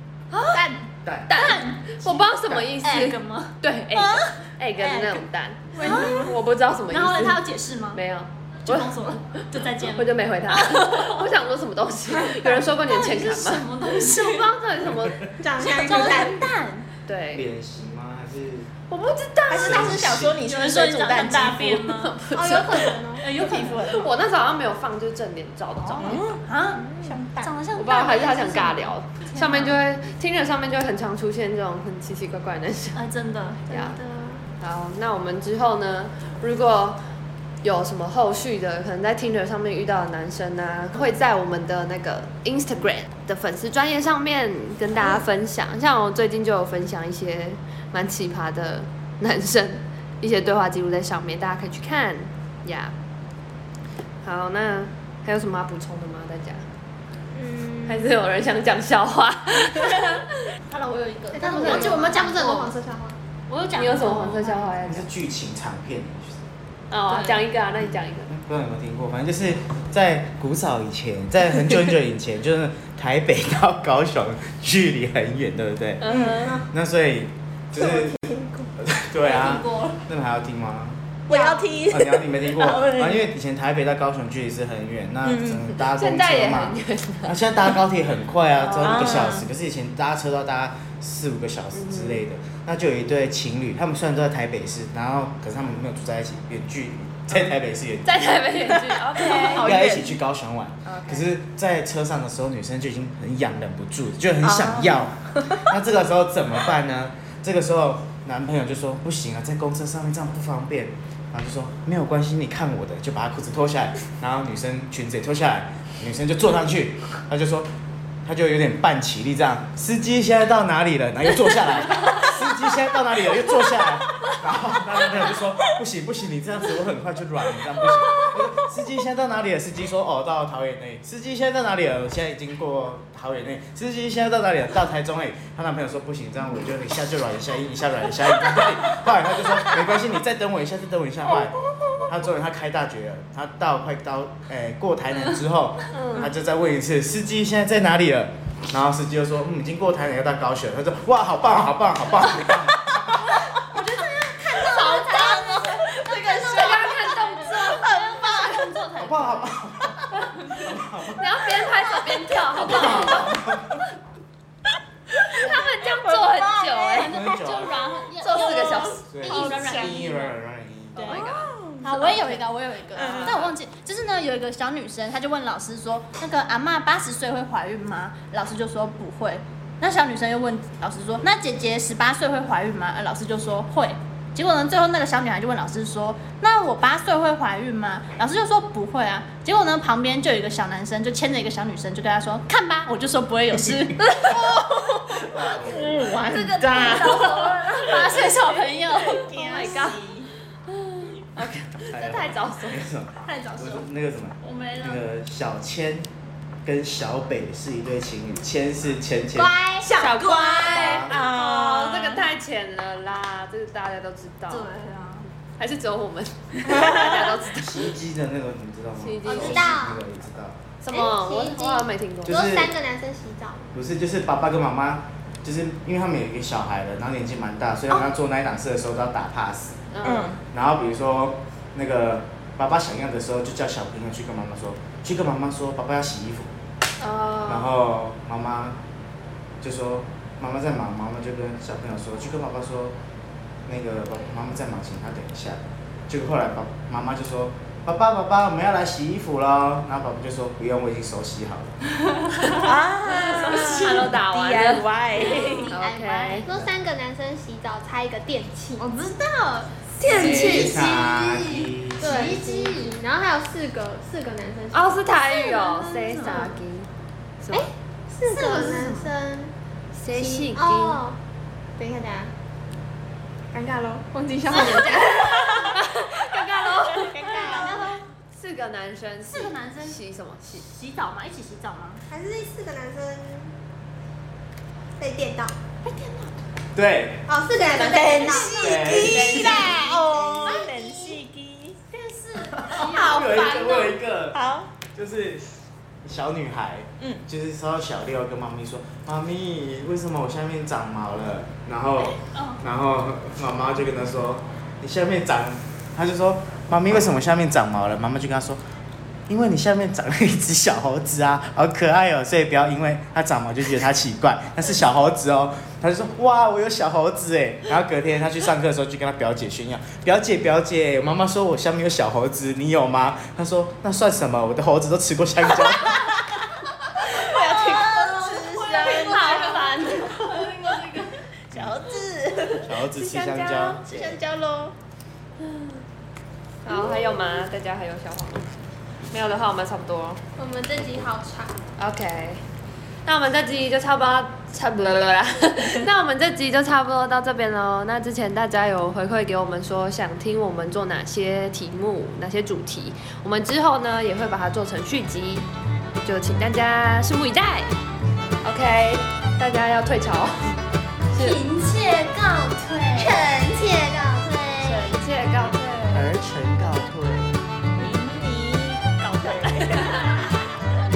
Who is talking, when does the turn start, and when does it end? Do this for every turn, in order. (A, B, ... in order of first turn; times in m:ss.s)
0:00.3-0:00.7 A
0:00.5-0:00.8 B
0:01.0-0:01.4 C
0:01.3-0:09.2 A
0:01.3-0:02.0 D
0:02.8-0:05.2 D
0:05.8-0:06.4 D
0:05.8-0:06.3 E
0:06.9-0:08.0 D
0:08.6-0:11.2 D
0:09.9-0:15.3 A
0:12.4-0:14.5 D
0:15.4-0:16.5 E
0:15.6-0:16.9 D
0:17.1-0:17.4 A
0:17.3-0:18.7 C
0:18.9-0:19.9 A
0:19.5-0:22.1 B
0:19.5-0:20.4 C
0:20.4-0:23.9 D
0:22.1-0:22.8 A
0:22.3-0:23.3 E
0:22.6-0:24.0 B
0:23.8-0:26.3 A
0:25.8-0:29.8 D
0:26.0-0:26.3 B
0:26.9-0:27.5 B
0:27.8-0:33.0 A
0:32.9-0:34.0 D
0:33.7-0:34.0 A
0:34.0-0:34.4 E
0:34.6-0:37.0 A
0:37.6-0:52.9 A
0:54.2-0:56.6 A
0:57.3-0:58.1 E
0:57.9-1:00.5 A
1:00.7-1:02.7 D
1:01.3-1:03.2 E
1:01.6-1:02.0 A
1:03.5-1:04.7 D
1:03.7-1:05.1 A
1:04.8-1:06.4 C
1:06.9-1:08.3 A
1:07.1-1:07.4 D
1:08.3-1:21.0 C
1:16.0-1:16.6 A
1:16.1-1:16.4 B
1:17.7-1:18.7 E
1:19.2-1:20.0 D
1:21.3-1:23.3 B
1:21.3-1:21.7 E
1:21.9-1:38.7 C
1:25.2-1:25.7 B
1:25.9-1:27.4 A
1:28.6-1:29.1 A
1:28.8-1:29.4 B
1:31.7-1:32.2 A
1:38.0-1:39.9 A
1:39.1-1:40.2 B
1:39.2-1:39.5 D
1:39.6-1:57.7 C
1:40.8-1:41.3 A
1:44.4-1:45.1 B
1:58.2-2:33.4 C
2:25.9-2:26.3 A
2:33.5-2:39.6 D
2:34.0-2:35.4 E
2:34.6-2:36.9 B
2:36.4-2:37.9 A
2:37.6-2:38.6 B
2:39.0-2:41.4 C
2:41.0-2:43.5 A
2:41.8-2:43.1 D
2:42.6-2:43.8 C
2:45.3-2:47.1 A
2:45.4-2:47.2 B
2:46.9-2:50.2 D
2:47.1-2:47.8 C
2:48.2-2:50.2 B
2:48.2-2:49.6 A
2:49.1-2:51.2 C
2:51.0-2:52.4 B
2:51.0-2:51.6 A
2:51.8-3:14.1 D
2:52.9-2:53.5 B
3:14.0-3:14.4 A
3:14.1-3:18.1 B
3:15.3-3:16.1 C
3:16.3-3:19.9 A
3:16.3-3:19.9 D
3:19.0-3:20.3 B
3:20.7-3:22.8 A
3:21.7-3:26.1 C
3:23.2-3:23.9 D
3:24.4-3:25.0 D
3:26.6-3:29.5 C
3:29.4-3:29.9 E
3:29.8-3:31.1 D
3:29.8-3:34.7 A
3:30.0-3:32.3 B
3:30.7-3:31.2 C
3:34.5-3:35.2 D
3:35.6-3:37.9 A
3:37.5-3:40.6 C
3:39.0-3:39.8 A
3:39.2-3:40.0 E
3:40.8-3:42.4 A
3:40.9-3:43.7 E
3:42.2-3:42.7 C
3:43.7-3:49.8 C
3:49.9-3:50.4 A
3:50.0-3:50.4 B
3:50.5-3:56.5 C
3:57.0-3:57.7 A
3:57.5-3:58.8 C
3:59.6-4:03.0 C
4:03.6-4:11.8 C
4:12.3-4:12.7 D
4:12.4-4:15.7 B
4:13.1-4:14.9 A
4:15.2-4:16.5 D
4:15.7-4:16.5 A
4:16.4-4:18.8 E
4:18.8-4:23.0 D
4:20.0-4:20.4 A
4:20.1-4:22.4 C
4:20.2-4:20.8 E
4:22.0-4:25.1 E
4:24.7-4:26.9 A
4:25.3-4:26.5 D
4:27.4-4:27.7 A
4:27.5-4:29.5 E
4:28.2-4:29.1 D
4:29.9-4:31.0 A
4:30.1-4:31.2 E
4:31.8-4:32.3 E
4:33.5-4:35.7 E
4:34.5-4:35.8 B
4:34.7-4:37.7 A
4:36.8-4:37.9 B
4:37.3-4:38.0 D
4:38.3-4:40.6 A
4:39.3-4:42.0 D
4:42.1-4:43.5 E
4:45.0-4:45.6 E
4:45.8-4:46.3 D
4:46.7-4:47.3 C
4:47.3-4:50.7 E
4:47.7-4:51.8 B
4:47.8-4:49.8 D
4:48.6-4:49.8 C
4:50.4-4:51.2 D
4:51.9-4:53.9 D
4:52.6-4:54.4 C
4:52.7-4:53.7 B
4:53.0-4:53.2 E
4:54.3-4:54.7 B
4:54.9-4:55.4 C
4:56.0-5:08.6 C
5:02.2-5:02.6 D
5:09.3-5:26.0 C
5:25.9-5:26.2 B
5:27.0-5:30.7 B
5:27.3-5:31.2 D
5:28.8-5:30.2 A
5:31.5-5:32.7 B
5:31.5-5:31.9 C
5:32.5-5:34.2 C
5:33.0-5:33.7 A
5:33.4-5:34.7 B
5:35.4-5:35.7 A
5:36.6-5:38.5 A
5:39.1-5:40.2 A
5:40.4-5:41.6 E
5:41.8-5:42.4 A
5:43.0-5:55.4 A
5:56.0-5:57.8 A
5:58.4-6:00.6 A
6:01.1-6:03.3 D
6:01.2-6:01.4 A
6:03.0-6:04.3 E
6:04.2-6:05.0 D
6:04.6-6:06.1 A
6:05.9-6:07.4 C
6:07.8-6:10.3 B